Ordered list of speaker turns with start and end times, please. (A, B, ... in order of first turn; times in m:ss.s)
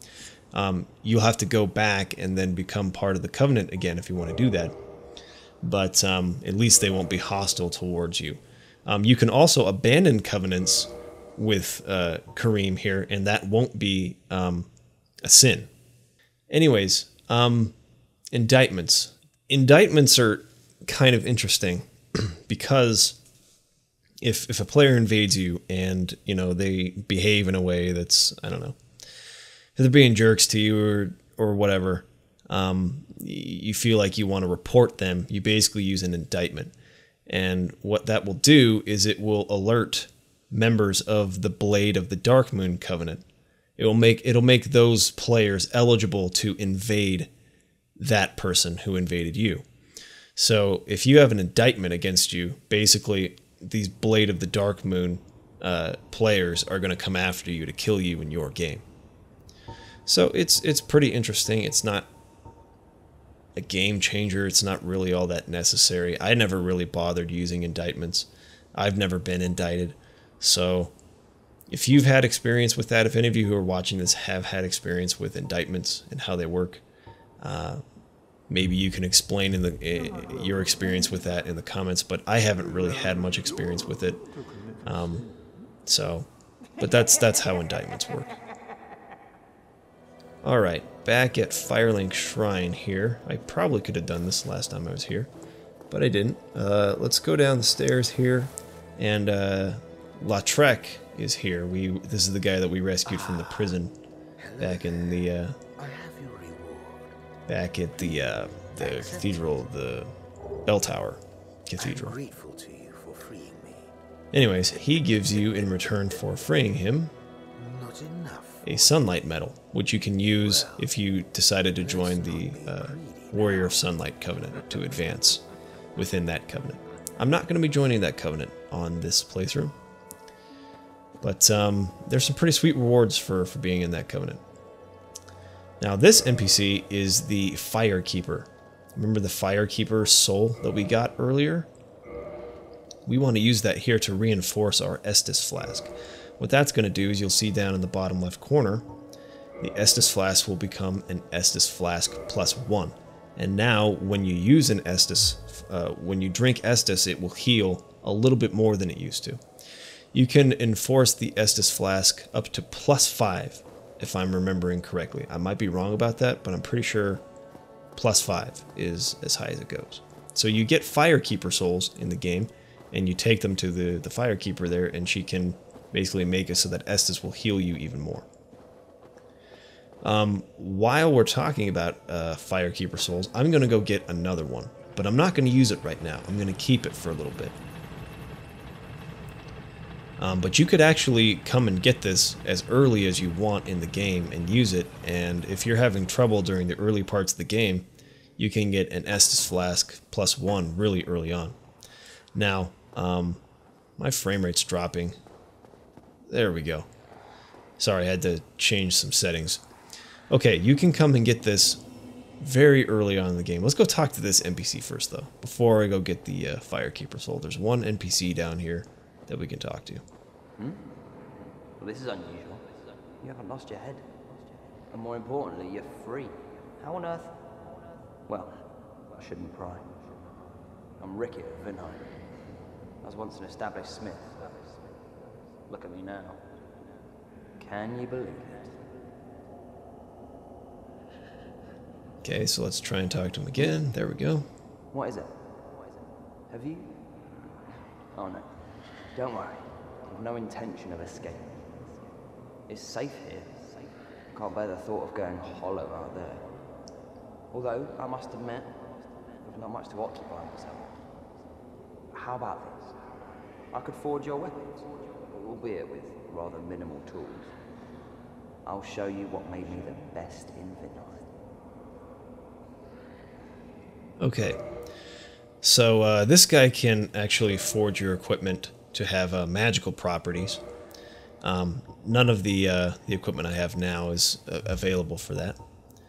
0:00.5-0:04.8 A
0:05.6-0:14.7 A
0:15.2-0:15.7 A
0:16.5-0:17.8 A
0:18.3-0:23.2 A
0:24.2-0:28.8 A
0:29.8-0:36.7 A
0:37.3-0:43.2 A
0:43.8-0:47.3 A
0:48.0-0:49.6 A
0:50.4-0:58.8 A
1:00.1-1:02.1 A
1:03.6-1:10.9 A
1:11.7-1:16.8 A
1:17.4-1:17.8 A
1:18.5-1:24.2 A
1:24.8-1:25.3 A
1:25.9-1:28.3 A
1:30.4-1:35.3 A
1:35.9-1:43.9 A
1:43.1-1:43.8 B
1:44.4-1:45.2 B
1:44.6-1:45.6 A
1:45.8-1:47.1 B
1:47.5-1:50.1 A
1:48.8-1:49.5 B
1:50.7-1:52.2 A
1:51.8-1:53.9 B
1:54.3-1:57.1 A
1:57.6-1:58.8 B
1:58.6-2:05.4 A
2:00.4-2:00.9 B
2:01.8-2:03.7 B
2:06.0-2:09.7 A
2:11.2-2:14.4 A
2:15.8-2:21.7 A
2:23.1-2:28.9 A
2:29.6-2:39.4 A
2:40.1-2:47.2 A
2:48.0-2:58.3 A
3:00.0-3:07.6 A
3:10.2-3:17.9 A
3:18.4-3:21.6 A
3:22.4-3:23.4 A
3:24.0-3:25.2 A
3:26.3-3:26.9 A
3:27.8-3:29.6 A
3:30.3-3:31.8 A
3:32.4-3:40.0 A
3:40.6-3:40.9 C
3:41.8-3:42.6 C
3:43.2-3:47.5 C
3:48.3-3:50.1 C
3:51.0-3:52.2 C
3:53.0-3:55.0 C
3:55.7-3:56.4 C
3:57.6-3:58.9 C
4:02.2-4:04.5 A
4:04.9-4:05.8 C
4:06.5-4:07.1 C
4:08.1-4:08.5 C
4:09.1-4:11.8 C
4:12.7-4:16.5 C
4:17.5-4:21.0 C
4:22.1-4:23.0 C
4:23.7-4:27.5 C
4:28.6-4:31.3 C
4:34.2-4:34.6 A
4:35.6-4:40.6 A
4:41.4-4:45.6 A